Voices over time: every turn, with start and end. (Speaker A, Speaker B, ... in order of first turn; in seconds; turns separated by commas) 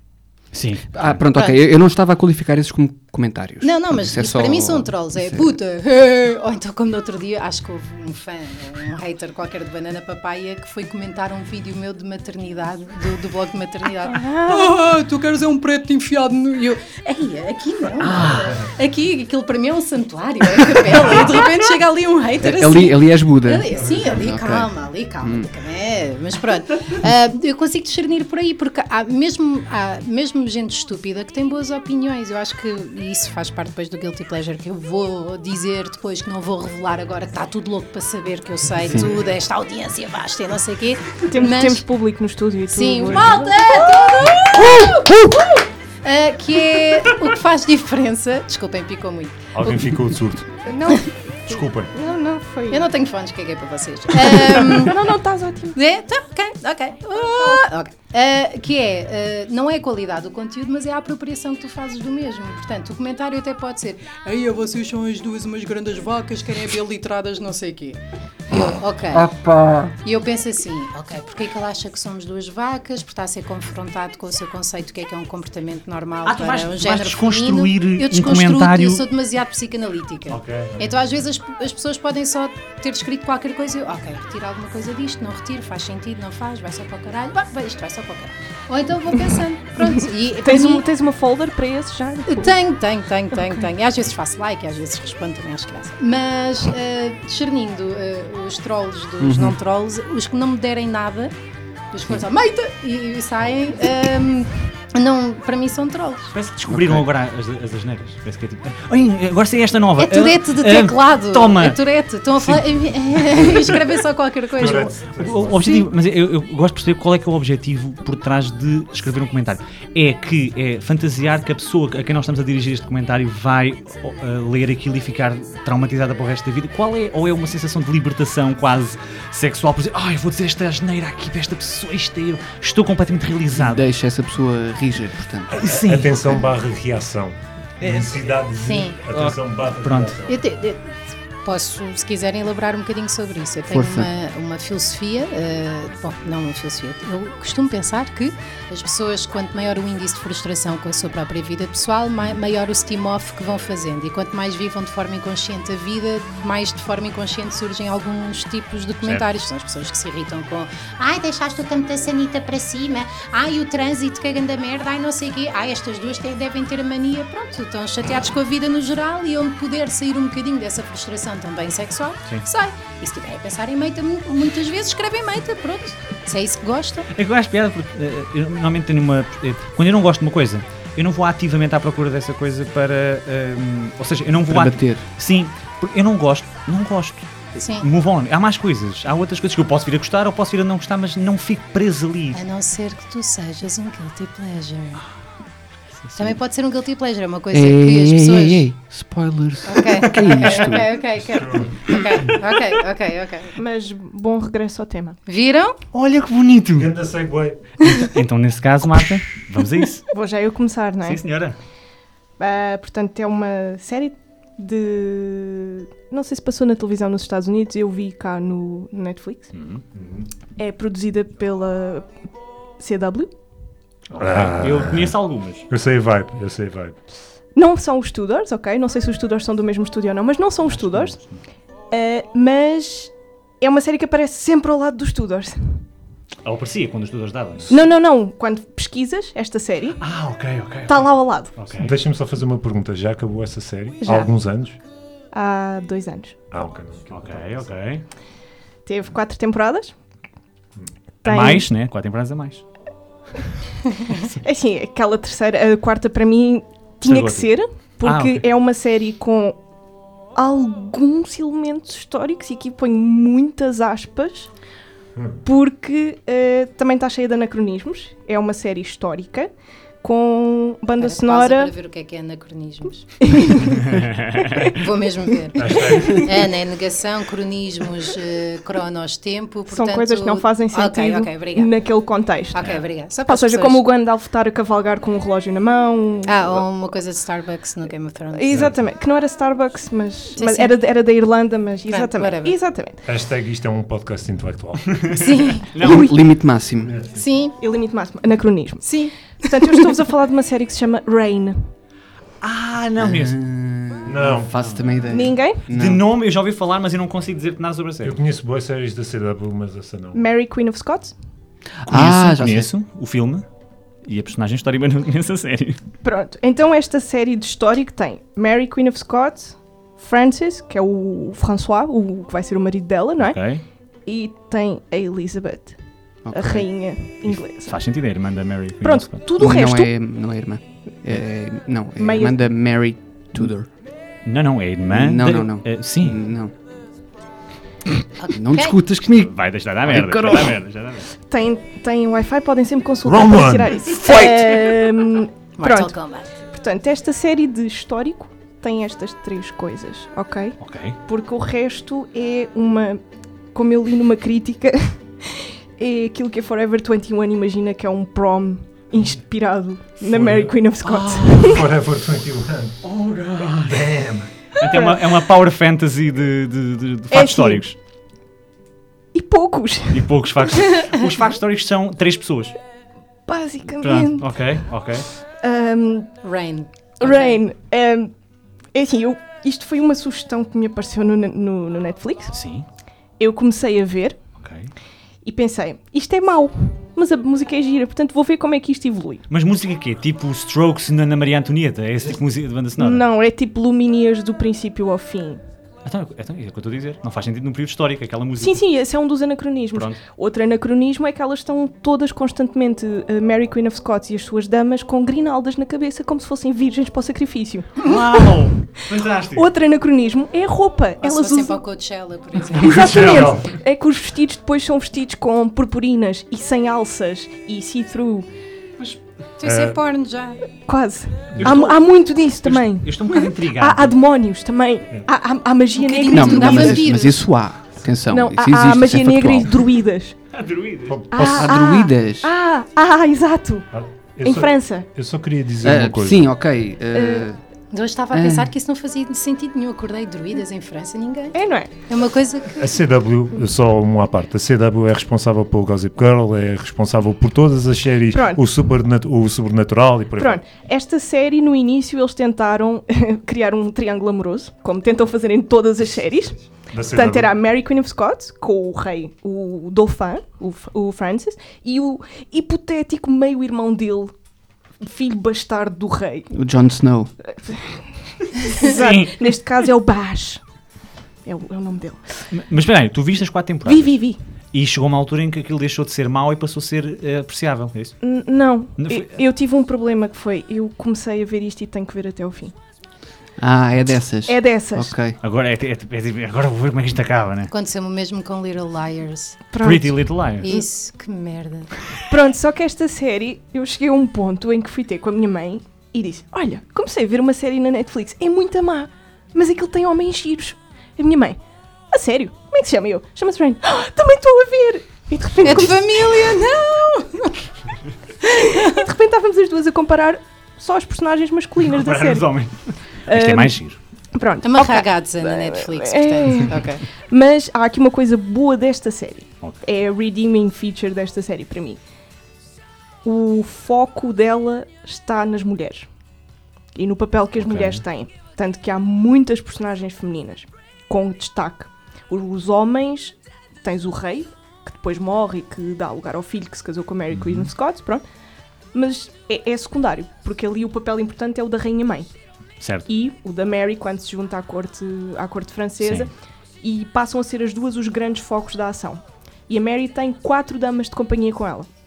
Speaker A: 0.5-1.1, Speaker B: 0.9-5.5, Speaker C: 1.3-1.6, Speaker C: 3.6-41.8, Speaker D: 14.0-14.8, Speaker A: 18.0-18.6, Speaker B: 22.4-24.7, Speaker E: 23.8-24.1, Speaker B: 25.2-25.5, Speaker D: 41.2-43.7, Speaker C: 42.7-49.4, Speaker E: 49.5-50.6, Speaker D: 50.6-52.8, Speaker E: 51.5-51.9, Speaker C: 52.7-55.0, Speaker D: 54.5-55.8, Speaker C: 55.7-69.3, Speaker D: 57.4-57.6, Speaker B: 69.1-69.9, Speaker C: 70.0-90.8, Speaker A: 76.2-79.0, Speaker E: 80.3-80.8, Speaker D: 90.4-92.5, Speaker C: 92.3-101.3, Speaker B: 99.2-99.6, Speaker C: 101.9-106.3, Speaker A: 106.3-111.8, Speaker B: 106.7-107.0, Speaker C: 110.0-115.0, Speaker A: 112.4-113.6, Speaker E: 114.5-115.7, Speaker A: 115.2-133.8, Speaker B: 133.6-135.6, Speaker E: 135.5-140.4, Speaker A: 135.6-136.3, Speaker A: 137.8-138.4, Speaker C: 138.6-138.9, Speaker A: 139.1-140.2, Speaker C: 140.3-177.1, Speaker B: 143.7-144.1, Speaker A: 159.0-159.3, Speaker A: 177.1-192.4, Speaker B: 184.5-185.0, Speaker C: 187.6-187.9, Speaker C: 192.3-195.0, Speaker A: 196.0-196.3, Speaker C: 196.2-198.6, Speaker B: 197.5-200.9, Speaker C: 199.7-203.6, Speaker E: 201.3-202.0, Speaker D: 203.6-205.2, Speaker C: 205.2-205.8, Speaker A: 205.9-206.9, Speaker E: 206.8-207.7, Speaker A: 207.8-210.0, Speaker D: 210.1-211.2, Speaker A: 211.0-211.6, Speaker D: 212.4-219.5, Speaker A: 219.5-219.8, Speaker E: 219.9-220.3, Speaker D: 220.6-222.2, Speaker D: 222.8-223.3, Speaker E: 224.1-225.2, Speaker A: 224.2-225.7, Speaker E: 225.7-227.0, Speaker D: 227.5-231.2, Speaker A: 230.7-231.4, Speaker D: 231.9-235.8, Speaker A: 236.4-237.8, Speaker D: 237.7-240.0, Speaker A: 240.0-241.9, Speaker D: 240.9-241.5, Speaker E: 241.8-244.8, Speaker D: 244.0-244.3, Speaker D: 245.3-246.4, Speaker E: 246.5-247.6, Speaker A: 247.1-248.0, Speaker D: 248.8-249.9, Speaker D: 251.2-251.7, Speaker A: 251.2-252.6, Speaker D: 254.4-259.6, Speaker A: 257.0-257.5, Speaker A: 258.0-258.4, Speaker D: 260.3-264.5, Speaker D: 265.4-271.7, Speaker C: 271.0-273.8, Speaker D: 273.2-273.9, Speaker A: 273.9-274.6, Speaker D: 274.5-274.7, Speaker C: 274.6-281.7, Speaker E: 275.6-276.3, Speaker D: 275.7-276.3, Speaker D: 279.7-286.6, Speaker C: 282.5-283.8, Speaker C: 286.2-288.6, Speaker D: 288.3-293.0, Speaker C: 290.4-290.8, Speaker C: 291.9-292.6, Speaker E: 293.1-295.2, Speaker C: 295.1-295.7, Speaker A: 295.7-296.1, Speaker B: 295.8-296.9, Speaker E: 296.9-297.2, Speaker C: 297.1-297.6, Speaker D: 297.6-301.7, Speaker C: 298.8-299.9, Speaker A: 302.4-303.4, Speaker B: 303.0-306.0, Speaker E: 304.1-304.5, Speaker A: 304.6-305.0, Speaker D: 305.1-305.6, Speaker A: 305.7-308.1, Speaker E: 308.0-310.2, Speaker D: 310.1-311.1, Speaker B: 311.8-312.7, Speaker A: 311.9-313.4, Speaker A: 314.0-315.8, Speaker D: 316.0-327.8, Speaker A: 323.2-323.6, Speaker B: 326.2-326.6, Speaker A: 327.6-329.2, Speaker D: 328.8-329.9, Speaker B: 329.4-333.7, Speaker D: 332.0-332.4, Speaker A: 334.2-336.2, Speaker B: 334.9-336.5, Speaker C: 338.2-338.8, Speaker B: 338.3-339.3, Speaker A: 338.9-341.1, Speaker B: 339.9-340.5, Speaker D: 340.0-340.5, Speaker D: 341.2-361.6, Speaker E: 343.0-344.8, Speaker C: 345.6-346.3, Speaker A: 350.6-351.0, Speaker E: 360.1-360.5, Speaker A: 360.8-361.3, Speaker E: 361.3-362.8, Speaker A: 362.8-363.9, Speaker E: 363.6-364.3, Speaker A: 364.6-367.8, Speaker D: 364.6-364.9, Speaker D: 367.1-367.6, Speaker D: 369.1-370.8, Speaker A: 369.9-372.5, Speaker D: 373.2-374.6, Speaker A: 373.8-375.1, Speaker D: 375.4-376.1, Speaker C: 376.2-377.4, Speaker D: 377.0-378.1, Speaker D: 378.7-382.4, Speaker A: 382.3-382.6, Speaker D: 383.2-384.2, Speaker A: 384.4-384.7, Speaker D: 385.2-389.2, Speaker A: 389.3-393.0, Speaker D: 392.8-395.4, Speaker A: 395.8-398.6, Speaker D: 398.4-408.0, Speaker A: 399.7-400.0, Speaker A: 407.8-409.5, Speaker D: 409.3-411.6, Speaker C: 411.0-413.2, Speaker D: 412.6-418.3, Speaker A: 412.6-413.4, Speaker E: 412.7-413.5, Speaker C: 419.4-420.4, Speaker E: 419.4-419.8, Speaker D: 420.6-426.9, Speaker A: 421.4-421.8, Speaker A: 422.4-423.9, Speaker C: 425.7-427.2, Speaker B: 426.1-429.6, Speaker D: 428.1-430.2, Speaker A: 430.3-431.0, Speaker E: 430.9-431.5, Speaker D: 431.1-433.7, Speaker B: 431.1-432.3, Speaker E: 433.7-436.2, Speaker D: 434.2-434.9, Speaker B: 435.6-437.4, Speaker D: 436.9-437.3, Speaker C: 437.7-442.6, Speaker B: 438.1-438.5, Speaker D: 441.3-441.7, Speaker E: 442.6-450.4, Speaker D: 448.1-448.4, Speaker D: 450.2-464.1, Speaker E: 456.7-457.3, Speaker D: 464.8-466.3, Speaker B: 466.3-467.1, Speaker D: 467.3-470.4, Speaker A: 468.6-469.2, Speaker D: 471.2-472.2, Speaker A: 472.3-473.9, Speaker D: 473.6-474.2, Speaker A: 474.5-477.9, Speaker D: 478.0-482.5, Speaker A: 478.8-479.1, Speaker B: 483.4-485.2, Speaker D: 484.3-484.9, Speaker A: 485.2-487.5, Speaker C: 487.5-489.4, Speaker D: 489.5-490.6, Speaker A: 489.6-490.5, Speaker C: 490.4-491.7, Speaker D: 492.1-501.4, Speaker D: 501.9-506.4, Speaker C: 505.4-507.3, Speaker A: 505.4-505.7, Speaker D: 508.2-512.3, Speaker C: 508.4-508.8, Speaker A: 511.7-513.8, Speaker D: 513.1-513.6, Speaker D: 514.1-521.8, Speaker C: 514.4-516.9, Speaker D: 523.0-525.9, Speaker D: 526.7-538.0, Speaker A: 527.4-527.8, Speaker A: 537.1-537.5, Speaker D: 538.7-542.1, Speaker A: 542.6-542.9, Speaker D: 542.9-546.1, Speaker A: 545.8-546.1, Speaker D: 546.6-551.7